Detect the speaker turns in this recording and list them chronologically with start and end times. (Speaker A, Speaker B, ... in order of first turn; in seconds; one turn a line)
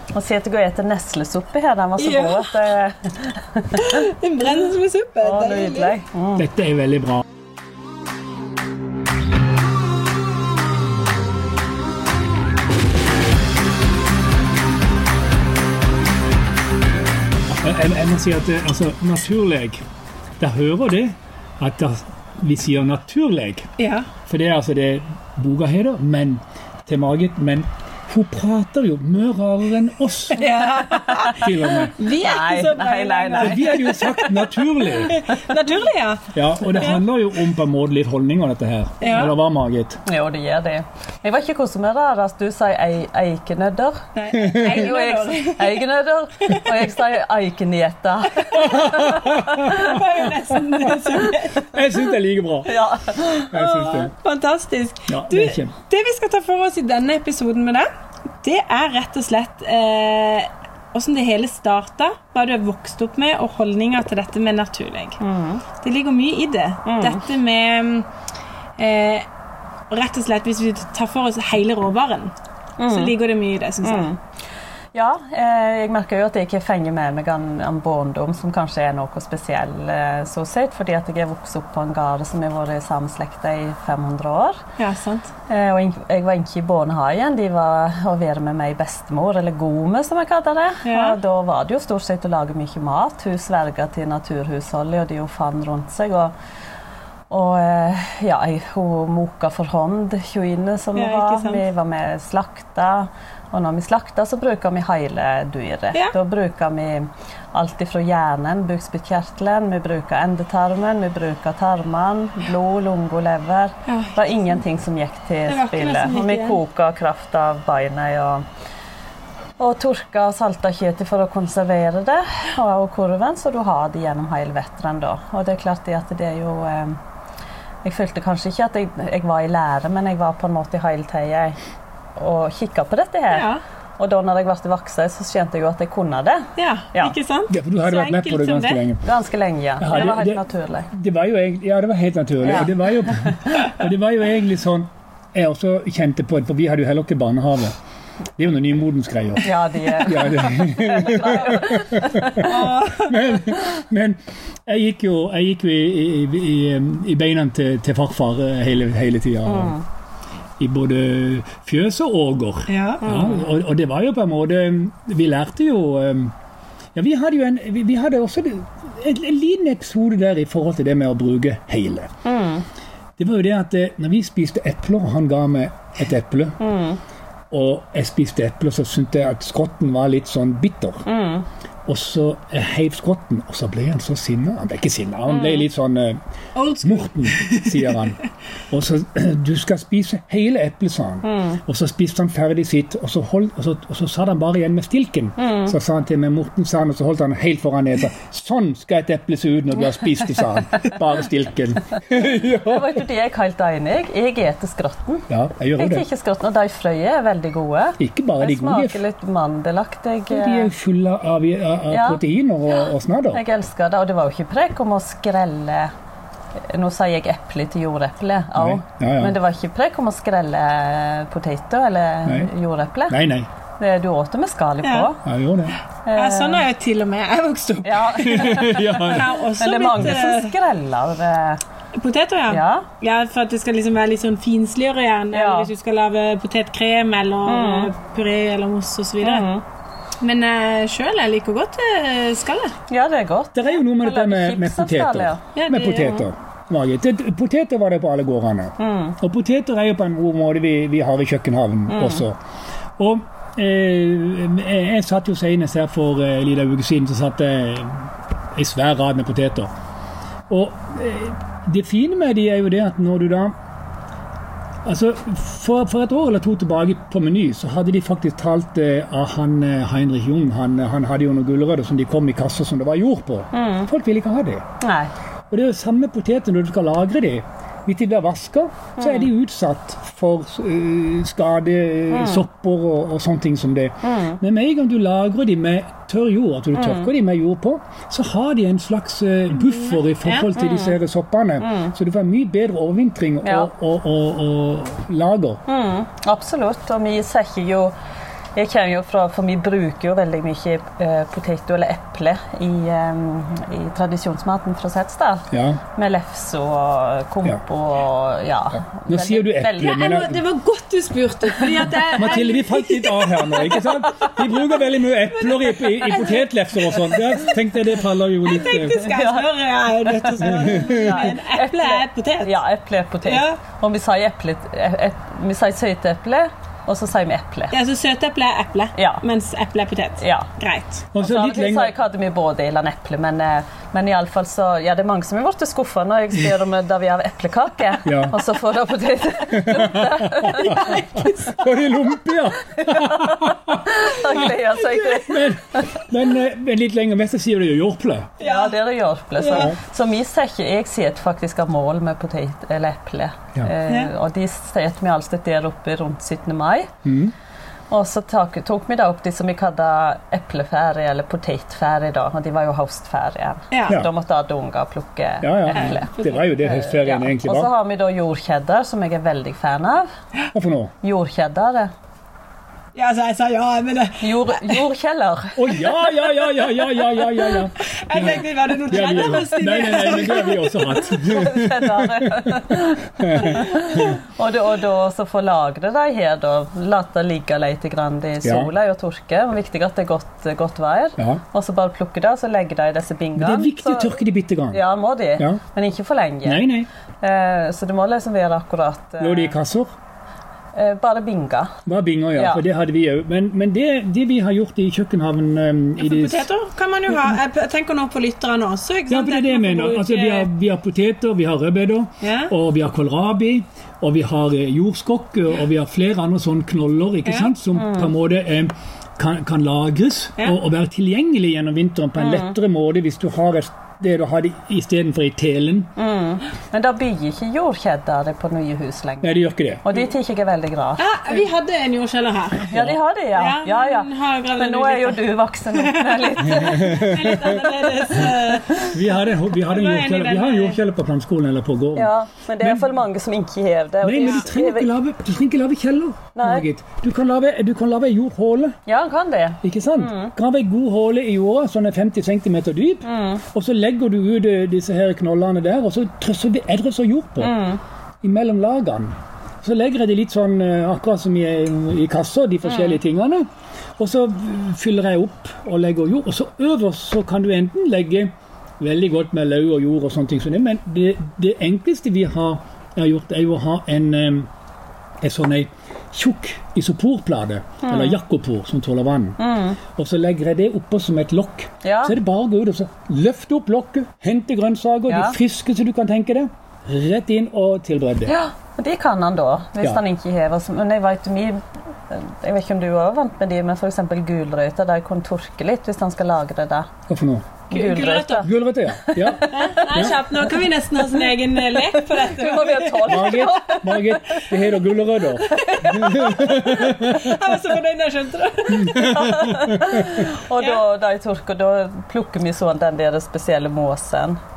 Speaker A: 0.1-4.0
Speaker B: 2.0-2.6
Speaker B: 3.7-6.0
Speaker A: 5.2-6.5
Speaker C: 6.4-7.2
Speaker C: 17.5-19.8
Speaker C: 20.4-23.7
Speaker B: 23.8-24.1
Speaker C: 24.3-30.4
Speaker B: 30.4-37.0
Speaker C: 31.2-31.9
Speaker A: 32.1-34.2
Speaker C: 33.4-35.1
Speaker C: 36.3-40.0
Speaker B: 39.0-39.3
Speaker A: 40.0-49.8
Speaker B: 44.1-45.9
Speaker C: 44.3-44.9
Speaker B: 48.5-51.8
Speaker C: 48.5-50.0
Speaker C: 51.6-52.7
Speaker A: 52.6-53.5
Speaker B: 53.3-57.9
Speaker C: 53.5-54.1
Speaker C: 55.1-55.7
Speaker B: 58.4-65.2
Speaker A: 65.2-65.6
Speaker B: 65.8-68.1
Speaker A: 66.8-67.2
Speaker B: 68.8-69.2
Speaker B: 69.9-72.3
Speaker A: 72.8-73.2
Speaker B: 72.8-74.1
Speaker A: 73.8-74.2
Speaker A: 74.9-84.6
Speaker B: 84.8-85.3
Speaker A: 85.5-96.3
Speaker B: 90.8-91.2
Speaker A: 97.3-118.4
Speaker B: 100.9-101.7
Speaker B: 113.9-114.2
Speaker B: 115.5-116.6
Speaker A: 119.6-127.0
Speaker A: 127.8-131.6
Speaker A: 132.2-137.1
Speaker B: 133.3-133.6
Speaker B: 136.6-138.8
Speaker C: 137.5-139.0
Speaker A: 139.0-140.9
Speaker C: 139.8-147.7
Speaker A: 142.4-143.4
Speaker C: 148.4-159.8
Speaker A: 149.4-152.7
Speaker B: 152.4-153.2
Speaker A: 159.4-159.8
Speaker C: 160.6-166.3
Speaker B: 162.7-163.2
Speaker C: 166.9-172.1
Speaker A: 172.2-172.6
Speaker C: 173.2-176.6
Speaker A: 176.6-177.0
Speaker C: 177.5-181.1
Speaker A: 181.1-181.4
Speaker C: 181.8-186.2
Speaker A: 185.3-185.7
Speaker B: 186.6-188.0
Speaker C: 186.8-188.2
Speaker C: 188.7-203.0
Speaker A: 191.2-191.6
Speaker A: 195.4-195.7
Speaker A: 202.6-210.7
Speaker C: 205.3-206.1
Speaker C: 208.0-209.0
Speaker C: 210.3-213.4
Speaker A: 211.9-215.9
Speaker A: 216.7-223.2
Speaker C: 218.5-219.3
Speaker C: 223.1-223.5
Speaker A: 223.8-225.2
Speaker B: 224.8-225.1
Speaker C: 225.2-225.8
Speaker A: 226.1-226.7
Speaker B: 226.1-230.5
Speaker A: 227.8-231.6
Speaker C: 228.2-229.4
Speaker B: 231.9-239.5
Speaker A: 232.5-232.9
Speaker A: 235.3-235.7
Speaker A: 237.4-237.9
Speaker A: 239.2-239.6
Speaker B: 240.2-242.7
Speaker A: 242.9-245.4
Speaker C: 243.5-252.4
Speaker B: 245.6-246.3
Speaker A: 248.8-249.2
Speaker A: 251.9-252.3
Speaker C: 253.0-259.7
Speaker C: 260.5-263.5
Speaker C: 264.8-274.6
Speaker A: 273.5-273.9
Speaker A: 274.8-275.1
Speaker C: 275.5-295.6
Speaker A: 279.0-279.3
Speaker A: 282.1-282.4
Speaker A: 284.0-284.4
Speaker A: 286.7-287.1
Speaker B: 289.6-290.5
Speaker A: 290.6-290.9
Speaker A: 291.6-291.9
Speaker A: 293.4-293.7
Speaker A: 295.7-297.9
Speaker A: 298.5-310.2
Speaker C: 305.5-305.8
Speaker C: 309.1-310.4
Speaker B: 309.8-313.9
Speaker C: 312.1-319.0
Speaker A: 314.0-314.4
Speaker B: 315.2-317.4
Speaker B: 318.4-322.6
Speaker A: 318.9-319.4
Speaker A: 320.1-327.8
Speaker C: 320.4-321.3
Speaker B: 323.2-323.6
Speaker B: 327.7-331.0
Speaker A: 328.9-329.2
Speaker A: 330.2-330.5
Speaker C: 331.1-331.9
Speaker A: 331.2-341.0
Speaker C: 338.0-338.4
Speaker C: 339.5-344.5
Speaker B: 340.4-341.6
Speaker A: 342.8-345.8
Speaker C: 345.1-348.4
Speaker B: 348.4-348.8
Speaker A: 348.4-356.9
Speaker B: 349.4-349.7
Speaker C: 357.0-357.3
Speaker A: 357.9-370.1
Speaker B: 363.7-364.0
Speaker C: 365.4-367.7
Speaker B: 365.7-366.0
Speaker C: 370.5-370.9
Speaker A: 371.0-371.9
Speaker B: 372.9-374.8
Speaker A: 374.2-375.8
Speaker C: 375.6-382.4
Speaker B: 377.6-380.9
Speaker A: 380.9-394.1
Speaker C: 383.2-384.0
Speaker C: 388.4-388.7
Speaker C: 393.4-394.8
Speaker A: 394.7-396.7
Speaker C: 396.4-396.9
Speaker A: 397.2-399.6
Speaker C: 399.2-399.9
Speaker A: 400.7-401.7
Speaker C: 401.9-406.5
Speaker A: 402.3-402.6
Speaker B: 406.0-410.5
Speaker C: 409.1-425.9
Speaker B: 412.2-412.5
Speaker B: 417.2-417.5
Speaker A: 417.7-418.1
Speaker A: 422.2-422.5
Speaker A: 426.0-431.1
Speaker C: 429.2-429.8
Speaker B: 431.0-432.7
Speaker A: 432.7-438.3
Speaker C: 432.7-433.0
Speaker B: 433.3-439.0
Speaker C: 436.6-437.4
Speaker C: 438.9-442.9
Speaker B: 439.6-440.8
Speaker A: 441.9-444.9
Speaker C: 444.0-448.7
Speaker B: 444.2-444.5
Speaker A: 446.3-446.7
Speaker A: 448.9-450.3
Speaker C: 449.6-457.5
Speaker A: 453.0-453.4
Speaker A: 457.4-457.8
Speaker C: 458.2-463.4
Speaker C: 464.0-474.5
Speaker C: 475.2-479.4
Speaker A: 477.8-478.2
Speaker A: 479.4-479.8
Speaker C: 479.9-488.3
Speaker A: 481.8-482.1
Speaker A: 485.1-485.4
Speaker A: 488.2-496.9
Speaker C: 497.1-497.6
Speaker A: 497.7-500.3
Speaker B: 497.7-498.5
Speaker C: 498.4-500.1
Speaker B: 499.5-503.4
Speaker A: 502.1-504.5
Speaker C: 503.0-507.3
Speaker B: 505.4-509.1
Speaker A: 505.6-506.3
Speaker C: 508.8-510.3
Speaker A: 508.8-514.4